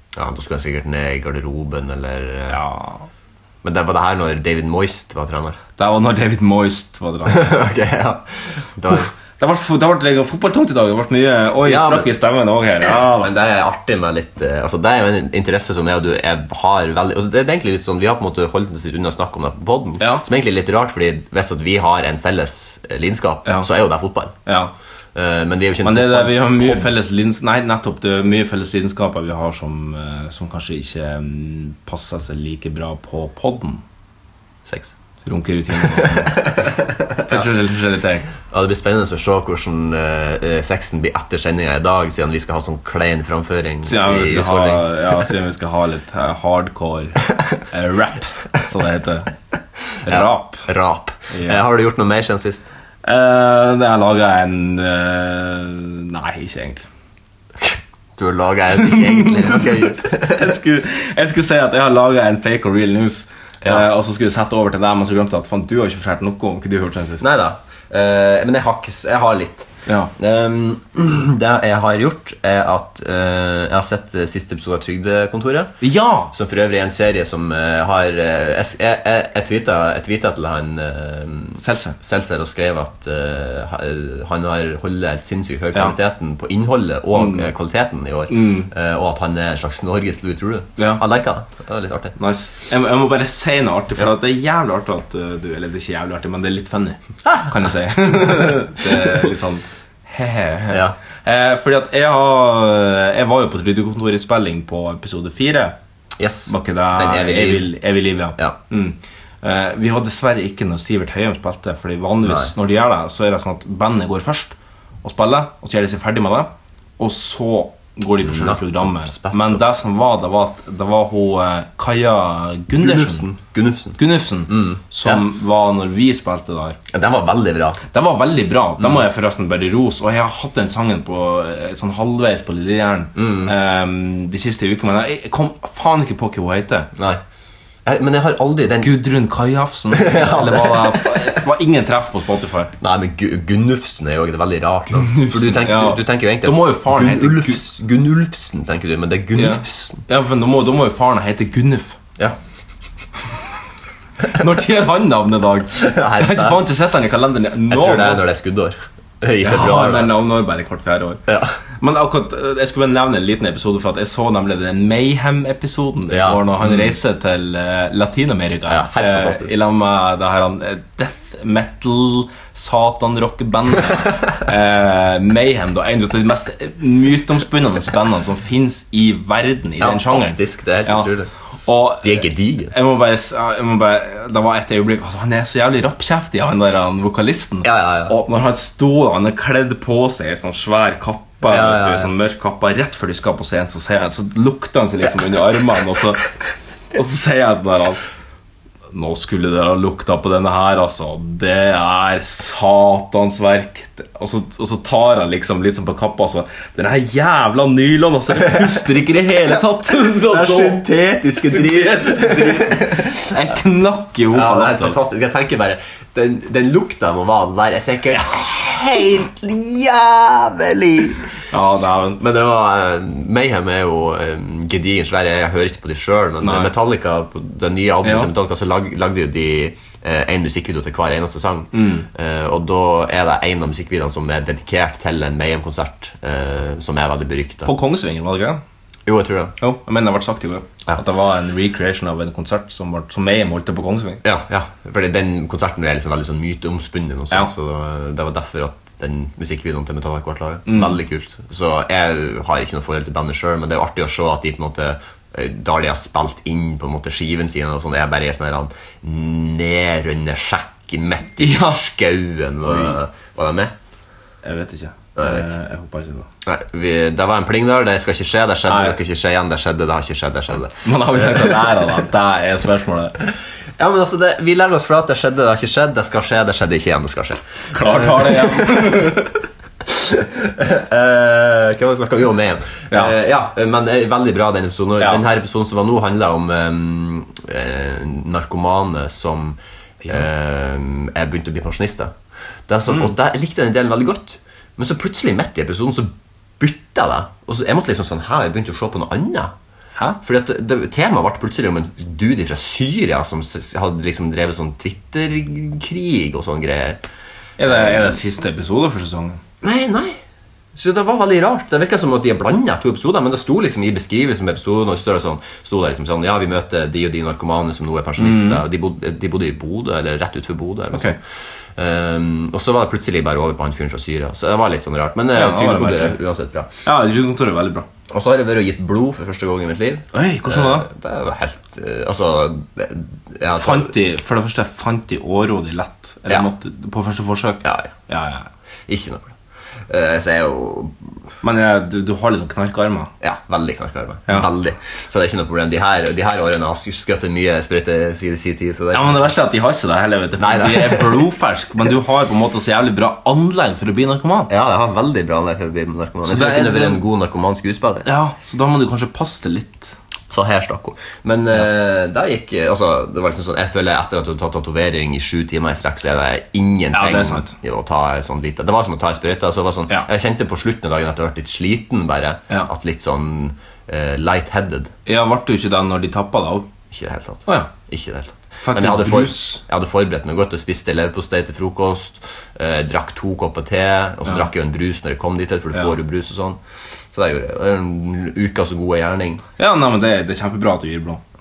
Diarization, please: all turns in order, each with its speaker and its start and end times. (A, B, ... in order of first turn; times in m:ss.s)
0:00.1-0:02.6 A
0:02.5-0:03.0 B
0:03.6-0:05.6 A
0:05.8-0:07.6 B
0:07.3-0:09.1 A
0:08.9-0:13.3 B
0:11.6-0:12.1 A
0:12.8-0:24.3 A
0:20.0-0:20.2 B
0:24.4-0:24.7 B
0:25.1-0:26.9 A
0:25.8-0:33.8 B
0:34.6-0:34.9 A
0:35.2-0:36.6 B
0:36.0-0:37.4 A
0:37.2-0:38.3 B
0:38.4-0:44.9 A
0:43.8-0:49.3 B
0:50.0-0:50.6 B
0:50.0-0:52.7 A
0:51.3-0:51.6 B
0:53.0-0:56.9 B
0:57.6-1:00.5 A
0:58.8-1:07.2 B
1:07.2-1:15.8 A
1:15.8-1:16.3 B
1:16.3-1:32.1 A
1:21.6-1:22.0 B
1:27.1-1:27.5 B
1:28.3-1:28.7 B
1:30.8-1:31.0 B
1:32.2-1:45.7 B
1:40.7-1:41.0 A
1:46.2-1:47.7 A
1:46.5-2:03.2 B
1:52.2-1:52.5 A
1:58.2-1:59.6 A
2:02.7-2:05.3 A
2:04.0-2:06.8 B
2:06.9-2:07.8 A
2:07.9-2:16.9 B
2:13.2-2:13.5 A
2:16.9-2:17.2 A
2:17.8-2:19.0 A
2:18.8-2:22.7 B
2:19.9-2:21.2 A
2:22.8-2:30.0 A
2:25.0-2:27.6 B
2:29.4-2:32.0 B
2:34.3-2:38.2 B
2:35.8-2:36.6 A
2:37.7-2:40.1 A
2:39.4-2:41.2 B
2:41.3-2:41.6 A
2:41.8-3:01.1 B
2:46.1-2:47.0 A
2:48.7-2:49.6 A
2:59.8-3:01.3 A
3:01.7-3:16.3 B
3:02.0-3:02.7 A
3:07.6-3:08.1 A
3:11.4-3:12.1 A
3:16.9-3:18.1 B
3:18.9-3:35.0 B
3:29.5-3:33.2 A
3:34.3-3:41.3 A
3:41.5-3:42.2 B
3:42.2-3:57.7 A
3:46.4-3:46.7 B
3:48.0-3:48.3 B
3:51.7-3:52.1 B
3:57.6-3:58.6 B
3:59.0-3:59.5 A
3:59.6-4:04.2 B
4:04.2-4:23.7 A
4:10.6-4:11.0 B
4:21.4-4:21.8 B
4:22.6-4:23.0 B
4:24.4-4:26.3 B
4:25.2-4:25.6 A
4:26.4-4:31.8 A
4:28.7-4:29.0 B
4:30.8-4:33.2 B
4:33.8-4:39.1 A
4:37.7-4:39.3 B
4:39.8-4:52.1 A
4:52.7-4:59.5 A
5:00.2-5:07.0 A
5:07.6-5:09.4 B
5:07.6-5:08.2 A
5:09.6-5:10.2 A
5:10.7-5:21.2 A
5:18.2-5:18.6 B
5:21.7-5:26.7 A
5:25.3-5:26.2 B
5:26.8-5:27.9 B
5:28.1-5:33.9 A
5:30.1-5:30.9 B
5:33.5-5:38.5 B
5:37.6-5:37.9 A
5:38.9-5:39.3 A
5:39.9-5:41.0 A
5:41.4-5:43.1 B
5:43.2-5:49.3 A
5:48.9-5:54.5 B
5:50.4-5:51.3 A
5:54.5-5:58.0 A
5:56.2-5:57.0 B
5:58.0-5:59.9 B
6:00.3-6:14.9 A
6:06.9-6:07.5 B
6:15.1-6:16.7 B
6:16.9-6:29.4 A
6:17.5-6:17.7 B
6:18.6-6:19.6 B
6:29.6-6:31.2 B